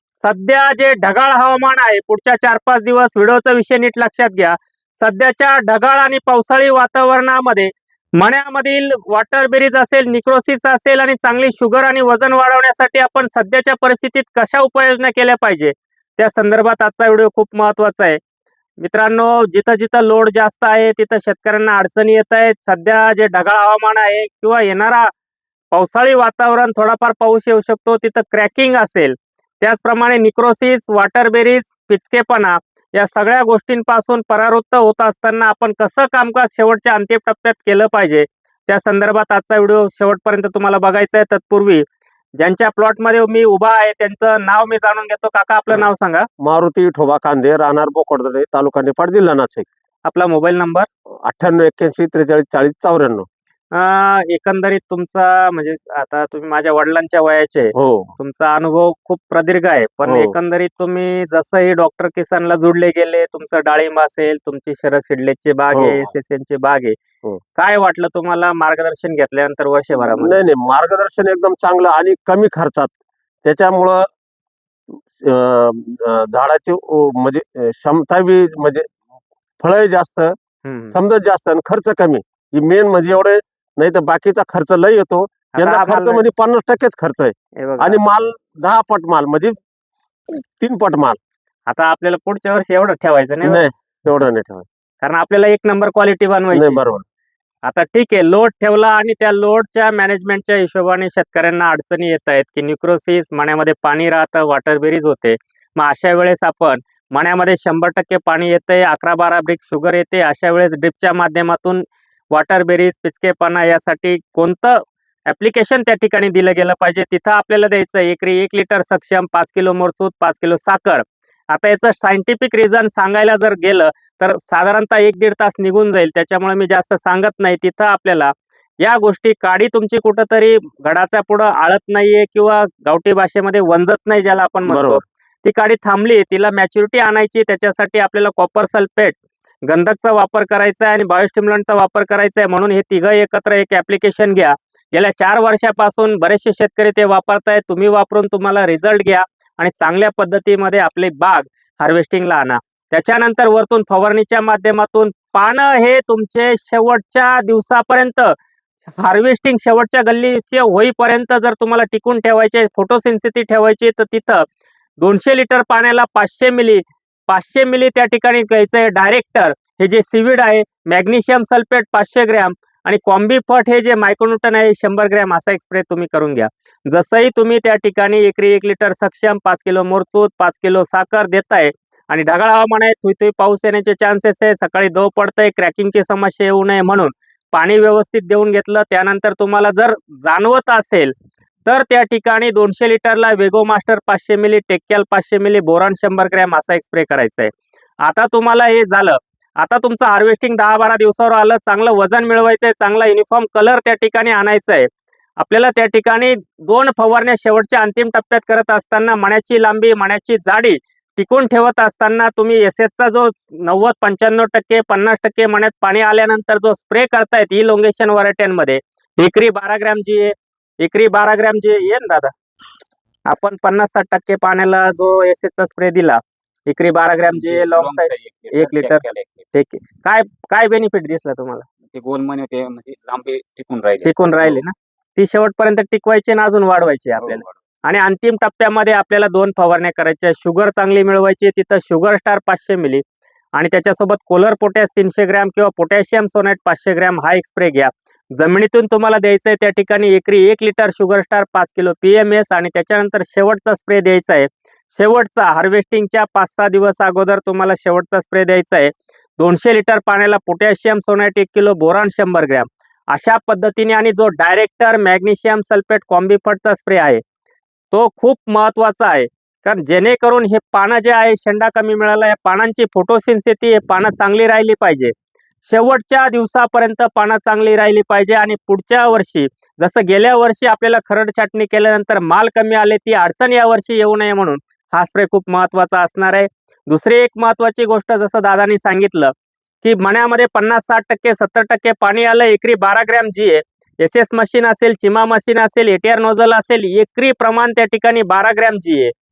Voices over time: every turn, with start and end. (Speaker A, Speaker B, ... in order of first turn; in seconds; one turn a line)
Speaker A: 0.2-18.2
Speaker A: 18.8-25.1
Speaker A: 25.7-41.8
Speaker A: 42.4-46.3
Speaker B: 46.4-49.7
Speaker A: 50.1-50.9
Speaker B: 51.2-53.3
Speaker A: 53.7-67.0
Speaker B: 57.7-58.1
Speaker B: 60.0-60.3
Speaker B: 65.7-66.1
Speaker A: 67.5-70.4
Speaker B: 70.0-72.9
Speaker B: 73.4-74.1
Speaker B: 74.9-78.9
Speaker B: 79.6-80.3
Speaker A: 80.6-80.9
Speaker B: 80.9-89.5
Speaker A: 85.5-86.2
Speaker A: 87.6-88.0
Speaker B: 90.3-91.2
Speaker A: 91.7-93.6
Speaker B: 93.4-94.7
Speaker A: 95.0-96.8
Speaker B: 96.5-97.0
Speaker A: 97.7-158.3
Speaker B: 134.7-135.0
Speaker A: 158.9-164.4
Speaker A: 165.0-191.1
Speaker A: 191.7-197.5
Speaker A: 198.0-222.3
Speaker A: 223.3-231.7
Speaker C: 227.3-229.4
Speaker C: 231.9-234.6
Speaker A: 234.0-243.0
Speaker C: 237.2-237.5
Speaker A: 243.5-267.2
Speaker A: 267.9-275.1
Speaker A: 275.6-299.1